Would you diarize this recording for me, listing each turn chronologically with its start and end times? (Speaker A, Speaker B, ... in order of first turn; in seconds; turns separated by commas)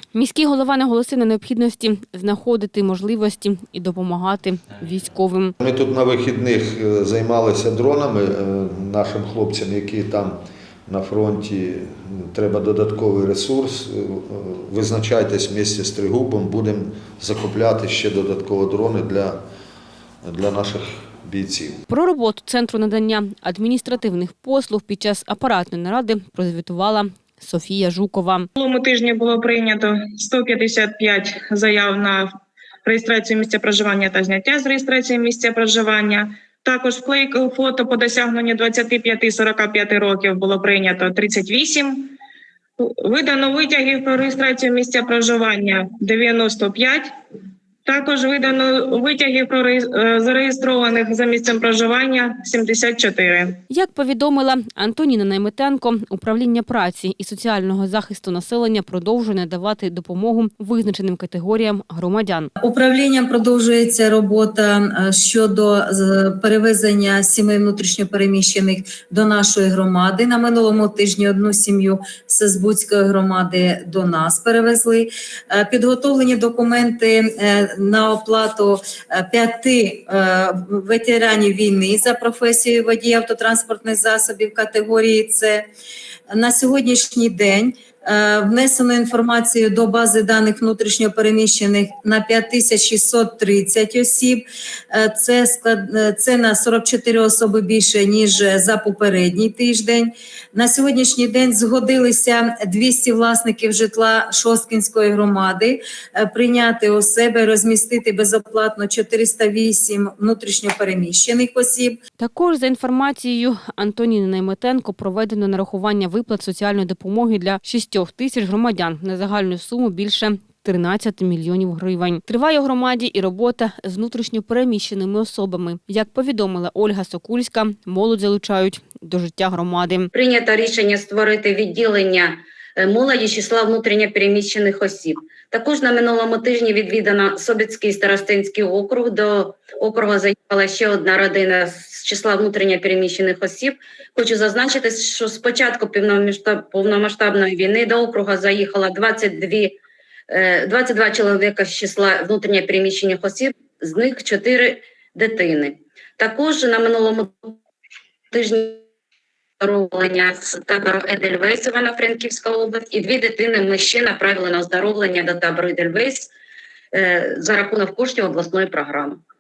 Speaker A: 0.1-5.5, Speaker B: 5.6-19.4, Speaker B: 20.2-21.8, Speaker A: 21.9-28.5, Speaker C: 28.6-32.3, Speaker C: 32.8-42.1, Speaker C: 42.8-47.1, Speaker C: 47.9-53.6, Speaker A: 53.7-62.5, Speaker D: 62.6-85.7, Speaker D: 86.3-112.0, Speaker A: 112.2-130.1, Speaker E: 130.1-149.8, Speaker E: 150.3-157.6, Speaker E: 158.3-158.8, Speaker E: 159.6-166.3, Speaker E: 166.9-169.2